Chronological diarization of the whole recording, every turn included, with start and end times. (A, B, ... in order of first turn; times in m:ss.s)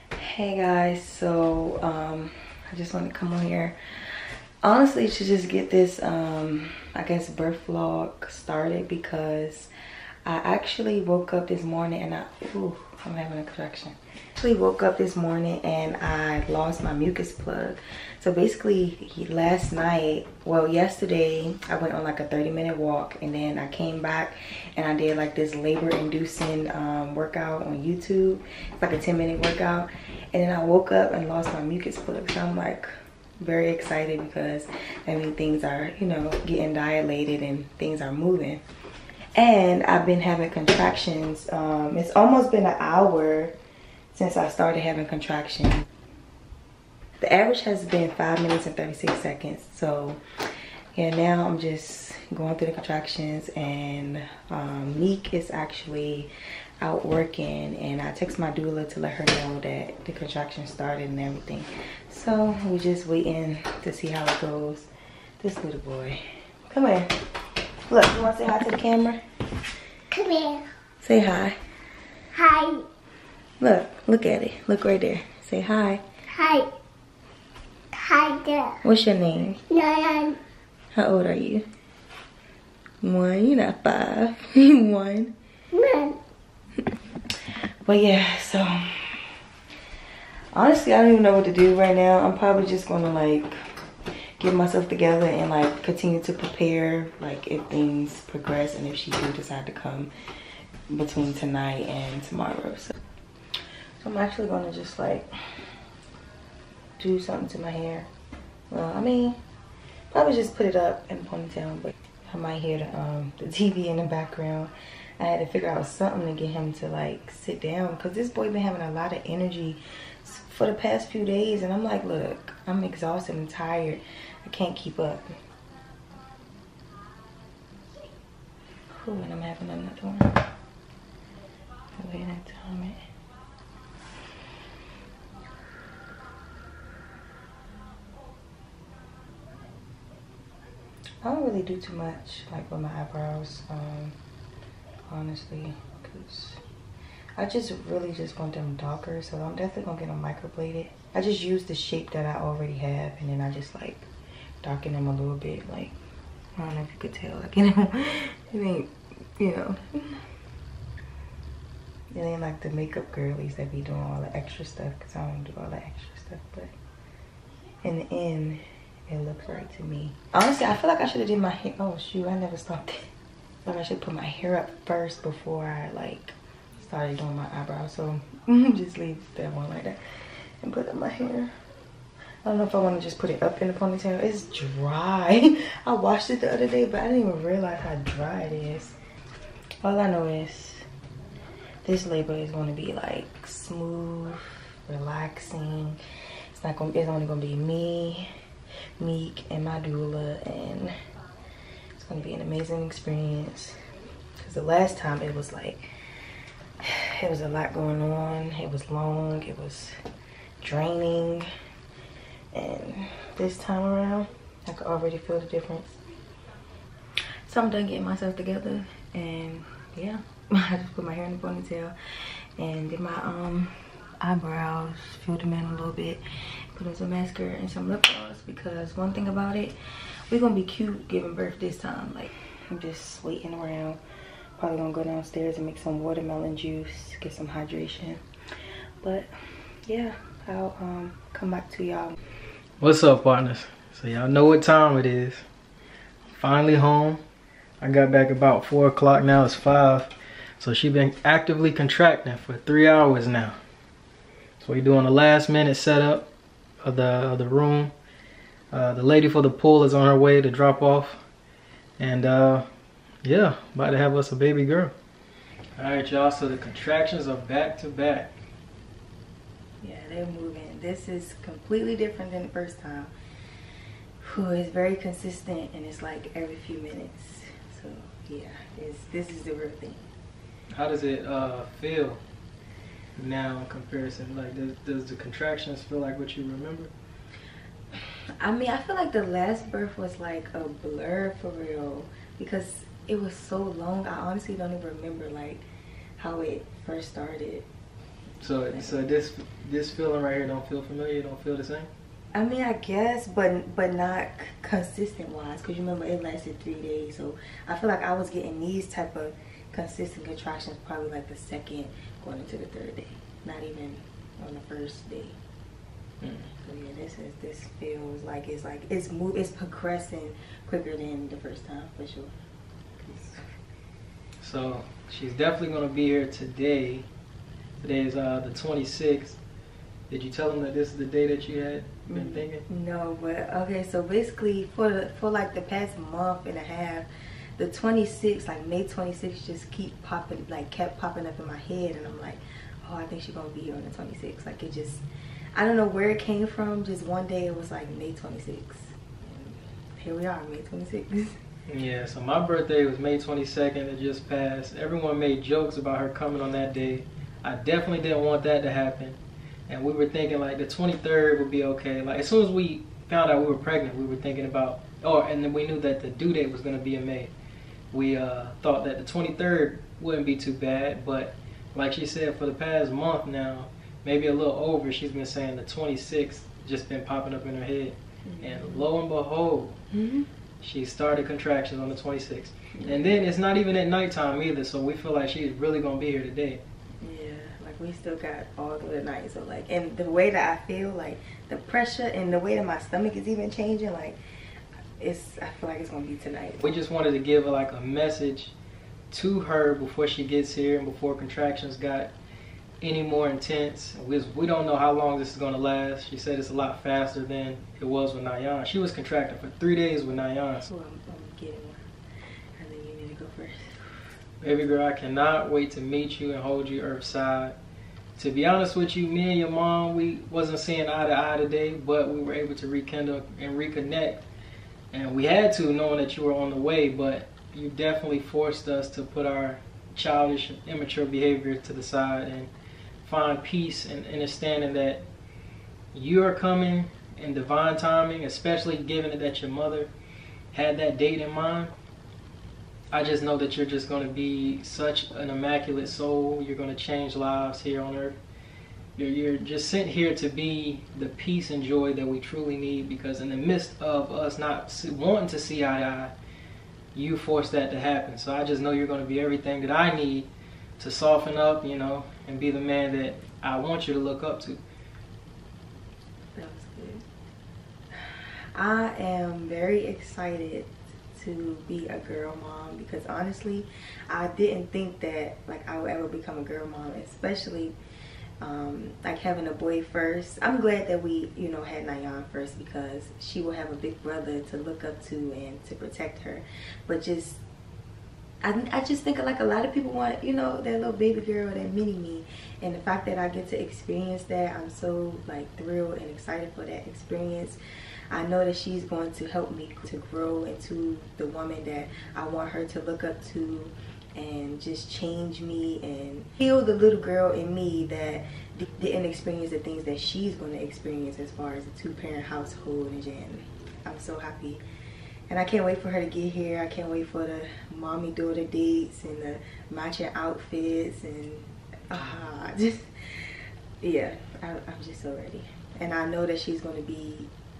0:00.2-0:09.7 A
0:10.2-0:38.6 A
0:39.4-0:43.5 A
0:44.1-0:45.8 A
0:47.2-0:50.2 A
0:50.9-1:04.9 A
1:05.4-1:07.1 A
1:07.9-1:09.2 A
1:10.1-1:10.6 B
1:11.0-1:11.6 A
1:12.3-1:12.8 B
1:13.6-1:16.0 A
1:16.3-1:16.7 B
1:17.9-1:18.8 B
1:18.8-1:19.6 A
1:19.7-1:20.4 B
1:20.9-1:21.6 A
1:23.0-1:25.3 A
1:25.7-1:26.2 B
1:27.8-1:29.2 A
1:30.5-1:33.5 A
1:34.4-1:40.1 A
1:40.9-1:42.9 A
1:44.0-1:45.3 A
1:47.0-1:48.1 A
1:48.7-1:49.4 A
1:50.1-2:05.4 A
2:08.9-2:10.4 A
2:12.0-2:13.0 A
2:21.2-2:24.2 A
2:25.1-2:26.6 A
2:27.4-2:34.1 A
2:34.6-2:36.0 A
2:36.6-2:40.2 A
2:42.1-2:46.7 A
2:47.8-2:53.0 A
2:53.6-3:00.0 A
3:00.6-3:01.5 A
3:02.4-3:09.0 A
3:09.8-3:10.8 A
3:11.8-3:16.0 A
3:16.5-3:18.3 A
3:19.0-3:20.9 A
3:21.9-3:23.8 A
3:24.4-3:25.9 A
3:26.8-3:29.9 A
3:30.6-3:31.5 A
3:32.5-3:36.0 A
3:37.4-3:41.9 A
3:42.6-3:46.2 A
3:46.7-3:49.8 A
3:50.3-3:54.0 A
3:54.6-3:58.2 A
3:59.0-3:59.3 A
3:59.8-4:02.2 A
4:02.8-4:05.4 C
4:06.3-4:07.2 C
4:07.8-4:13.6 C
4:14.6-4:16.3 C
4:16.8-4:17.9 C
4:18.7-4:21.2 C
4:22.0-4:22.6 C
4:23.2-4:24.9 C
4:25.8-4:28.3 C
4:29.8-4:33.1 A
4:34.2-4:40.0 A
4:40.7-4:42.2 C
4:43.2-4:46.9 C
4:48.4-4:55.6 A
4:56.2-4:57.7 A
4:58.4-5:01.9 C
4:58.7-4:59.0 A
5:02.3-5:15.4 A
5:16.2-5:16.5 C
5:16.6-5:22.3 A
5:23.0-5:23.4 A
5:24.4-5:27.1 C
5:27.8-5:29.4 C
5:30.1-5:32.6 C
5:32.1-5:51.4 A
5:51.7-6:07.3 C
6:07.9-6:19.8 C
6:18.2-6:18.8 A
6:19.9-6:20.3 A
6:20.6-6:26.6 C
6:22.7-6:23.2 A
6:27.0-6:34.2 A
6:35.0-6:36.6 A
6:36.6-6:38.5 C
6:39.1-6:42.1 C
6:42.8-6:50.7 C
6:50.7-6:51.9 A
6:52.6-6:53.8 A
6:54.4-6:57.6 C
6:58.2-7:04.2 C
7:04.9-7:12.5 C
7:13.0-7:15.0 C
7:15.9-7:19.9 C
7:20.5-7:21.7 C
7:22.9-7:28.2 C
7:29.0-7:36.1 C
7:36.9-7:44.6 C
7:46.4-7:47.0 A
7:47.9-7:57.8 A
7:58.4-8:07.4 A
8:08.4-8:17.6 A
8:18.1-8:34.6 A
8:35.3-8:47.3 A